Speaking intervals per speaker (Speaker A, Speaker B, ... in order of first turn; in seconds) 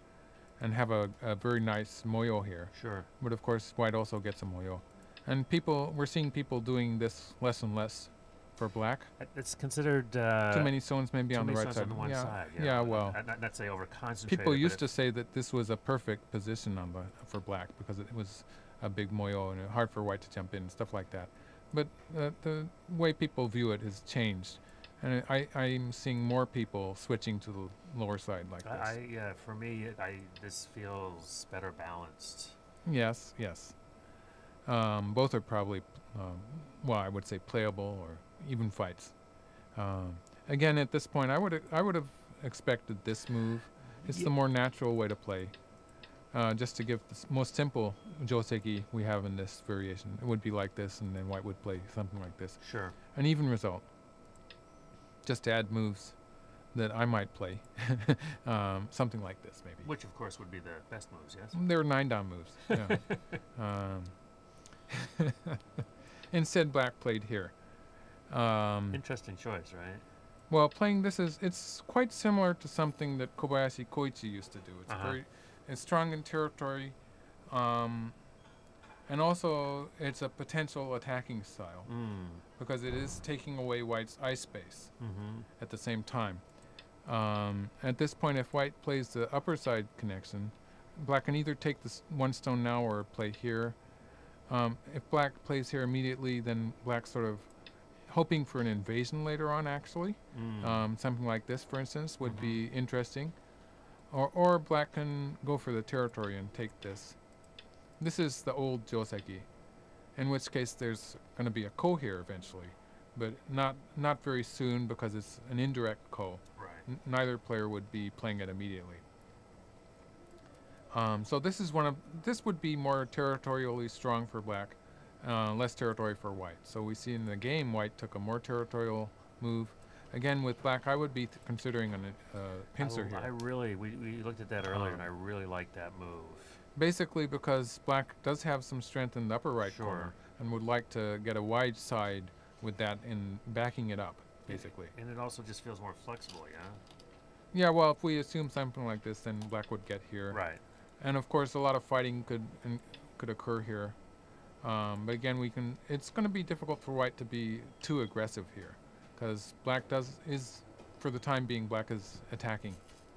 Speaker A: 0.6-9.1, 10.5-13.2, 14.3-29.0, 32.8-33.8, 34.6-39.2, 39.7-45.5, 46.3-53.8, 55.2-56.2, 56.7-59.9, 61.5-64.4, 65.2-65.6, 66.3-67.5, 68.3-69.0, 70.5-77.0, 77.5-78.2, 79.1-86.4, 87.0-93.8, 94.5-97.5, 98.1-103.3, 104.1-107.2, 108.0-109.5, 110.1-119.0, 120.9-133.3, 134.7-135.1, 136.8-144.9, 147.5-154.0, 154.6-162.8
Speaker B: 2.7-3.1, 9.2-14.8, 28.6-32.5, 44.0-44.3, 52.6-52.9, 59.8-61.6, 62.9-63.2, 68.9-70.0, 74.9-75.2, 81.8-82.4, 85.0-85.5, 100.3-100.8, 102.2-102.6, 116.6-116.8, 132.8-136.6, 139.6-140.2, 144.5-146.8, 150.3-150.6